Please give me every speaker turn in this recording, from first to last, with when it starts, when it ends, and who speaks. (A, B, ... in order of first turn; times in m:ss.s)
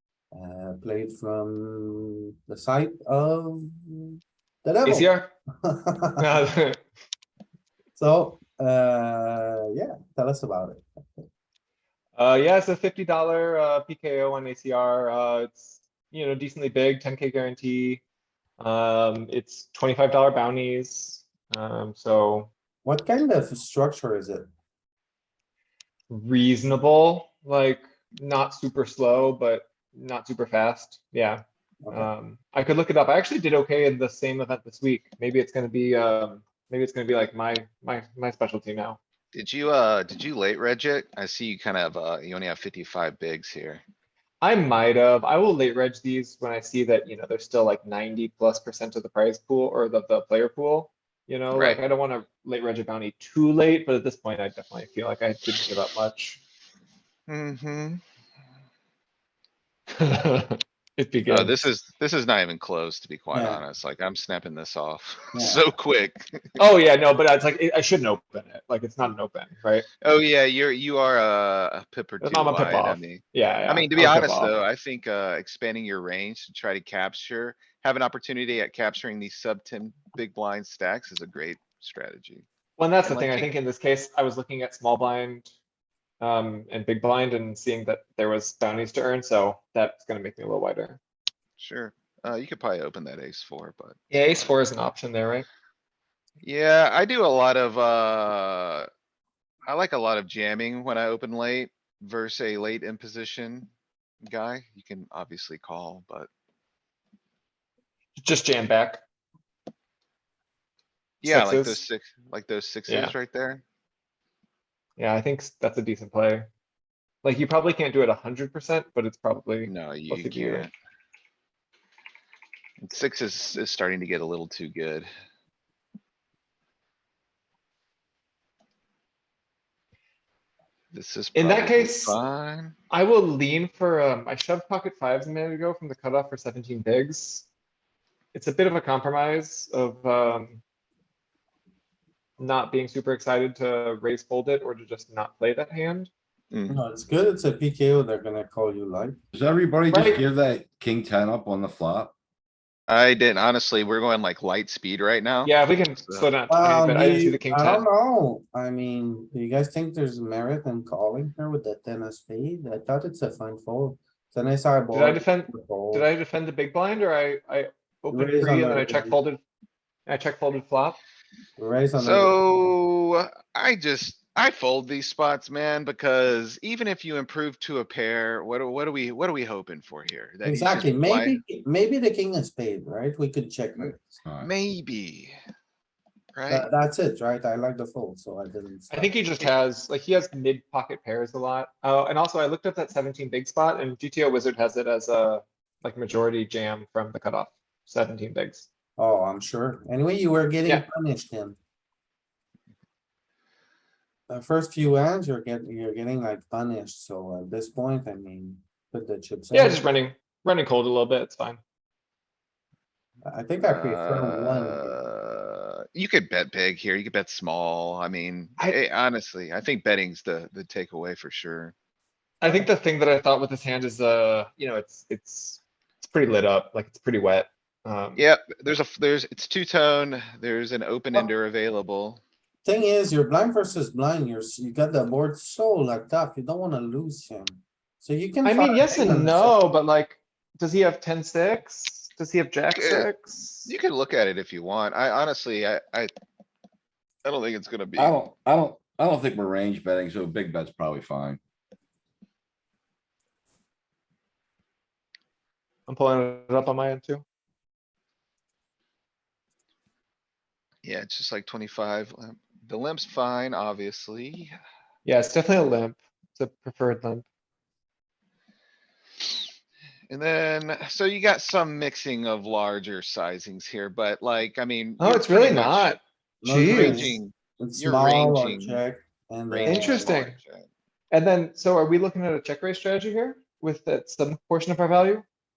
0:00.3-0:05.1 A
0:04.8-0:05.3 B
0:05.6-0:06.3 A
0:06.2-0:06.8 B
0:08.0-0:11.3 A
0:12.2-0:18.0 B
0:18.6-0:22.5 B
0:22.8-0:24.5 A
0:26.1-0:39.0 B
0:31.8-0:32.1 A
0:39.3-0:43.8 C
0:44.4-0:56.4 B
0:51.5-0:51.8 C
0:57.3-0:58.0 C
1:00.0-1:01.6 B
1:01.3-1:06.6 C
1:03.3-1:03.6 A
1:05.3-1:05.7 A
1:06.6-1:09.9 B
1:10.0-1:22.4 C
1:12.2-1:14.5 B
1:22.8-1:25.5 B
1:23.0-1:23.5 C
1:26.2-1:31.0 B
1:31.6-1:34.5 C
1:34.1-1:35.4 B
1:36.4-1:38.9 C
1:39.6-1:43.7 C
1:44.2-1:46.3 C
1:48.2-1:49.0 B
1:51.2-1:53.6 C
1:51.2-1:51.8 B
1:52.9-1:53.1 B
1:55.0-1:56.5 B
1:57.2-2:00.7 B
1:59.7-2:00.7 C
2:02.8-2:05.1 C
2:10.9-2:12.7 C
2:11.3-2:12.2 B
2:12.9-2:17.5 B
2:18.3-2:20.6 B
2:22.4-2:26.1 B
2:26.5-2:26.8 C
2:26.7-2:29.2 A
2:29.3-2:32.1 D
2:29.9-2:30.2 B
2:32.9-2:36.3 C
2:35.4-2:37.8 B
2:36.5-2:46.1 A
2:44.9-2:49.4 B
2:48.1-2:49.2 A
2:50.1-2:51.0 B
2:51.6-2:52.4 A
2:52.0-3:01.4 C
3:00.4-3:04.2 A
3:03.8-3:05.4 C
3:06.3-3:06.7 C
3:06.5-3:09.1 A
3:08.9-3:18.7 B
3:19.0-3:21.6 A
3:24.3-3:29.9 A
3:29.5-3:31.6 B
3:33.3-3:35.0 A
3:33.7-3:41.7 C
3:42.4-3:48.2 B
3:48.2-3:52.2 C
3:52.6-3:59.5 A
3:58.4-4:03.7 B
4:02.7-4:03.1 C
4:03.7-4:06.1 C
4:07.2-4:08.2 C
4:08.0-4:11.4 D
4:15.9-4:17.2 B
4:20.8-4:24.5 C
4:25.0-4:27.2 B
4:30.1-4:36.0 C
4:35.0-4:37.2 B
4:36.4-4:40.1 A
4:36.6-4:38.8 C
4:39.5-4:40.7 C
4:39.6-4:40.4 B
4:41.1-4:45.2 B